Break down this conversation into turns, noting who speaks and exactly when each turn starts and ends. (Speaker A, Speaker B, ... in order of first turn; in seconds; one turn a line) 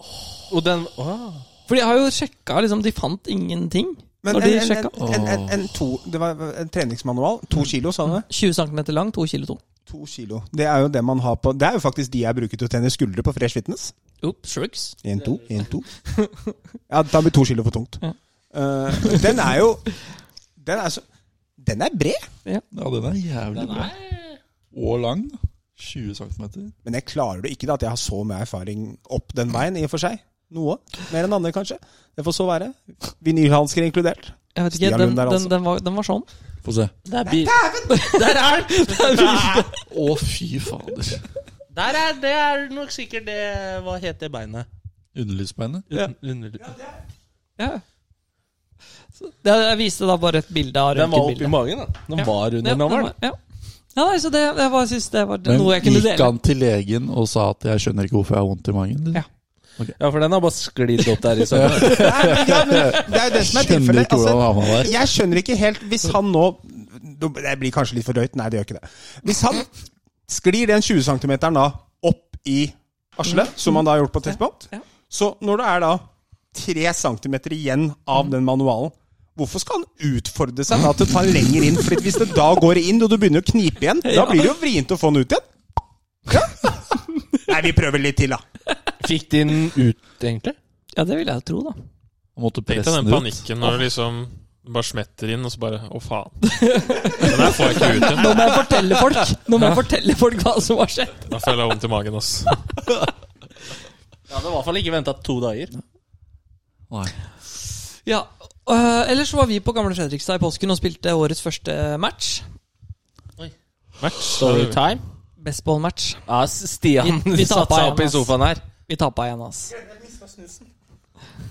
Speaker A: 0.5-1.5
Speaker B: 1.7-4.9
Speaker C: 4.2-8.3
Speaker D: 5.0-5.7
Speaker B: 8.2-9.6
Speaker C: 9.9-13.9
Speaker B: 14.2-15.0
Speaker C: 15.0-15.9
Speaker B: 16.1-16.5
Speaker C: 16.9-18.0
Speaker C: 18.5-20.0
Speaker B: 18.9-19.3
Speaker C: 20.6-21.0
Speaker C: 21.6-22.3
Speaker D: 22.7-23.9
Speaker A: 23.6-24.4
Speaker D: 24.7-26.7
Speaker C: 26.9-35.5
Speaker B: 34.5-36.3
Speaker D: 36.6-36.9
Speaker A: 37.0-39.6
Speaker C: 37.2-38.0
Speaker B: 37.9-39.9
Speaker D: 39.9-41.2
Speaker A: 41.7-44.7
Speaker D: 45.1-45.9
Speaker A: 45.9-46.8
Speaker B: 47.6-47.8
Speaker B: 49.2-51.6
Speaker A: 50.9-53.1
Speaker B: 52.2-53.4
Speaker B: 54.0-56.3
Speaker D: 55.5-59.2
Speaker A: 60.0-62.3
Speaker D: 61.5-65.0
Speaker C: 61.7-69.7
Speaker C: 70.3-85.4
Speaker B: 84.0-84.5
Speaker C: 86.3-88.4
Speaker A: 89.0-90.6
Speaker B: 91.0-91.8
Speaker D: 92.4-93.4
Speaker E: 92.7-98.5
Speaker B: 96.4-101.3
Speaker E: 101.3-102.6
Speaker A: 104.3-105.8
Speaker B: 108.0-112.5
Speaker E: 114.0-114.8
Speaker A: 114.2-115.0
Speaker B: 115.4-116.3
Speaker A: 116.3-118.6
Speaker B: 117.0-118.3
Speaker B: 118.9-119.8
Speaker C: 119.8-120.6